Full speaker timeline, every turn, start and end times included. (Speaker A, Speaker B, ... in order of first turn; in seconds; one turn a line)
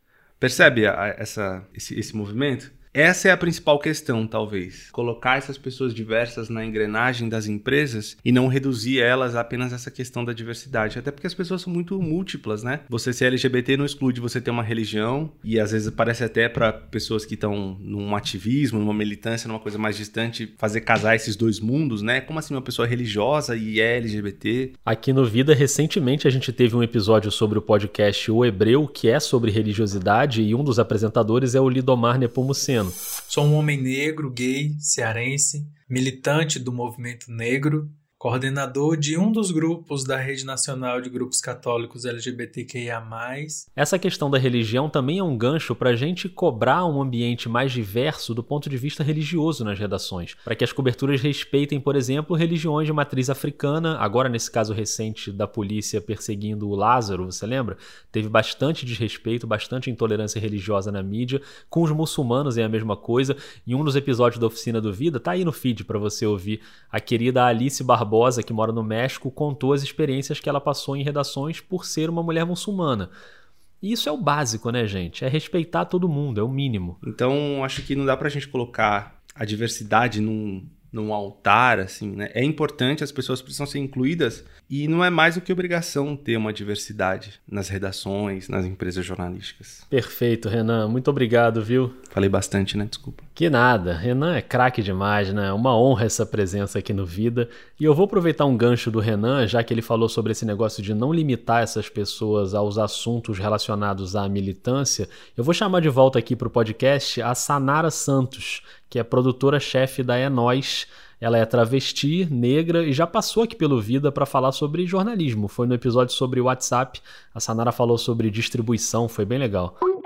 Speaker A: 0.4-24.8
Speaker B: 24.9-33.0
Speaker C: 33.3-43.6
Speaker B: 43.8-73.1
Speaker B: 73.8-77.0
Speaker A: 77.0-89.8
Speaker B: 89.9-92.0
Speaker A: 92.1-93.2
Speaker B: 93.4-119.8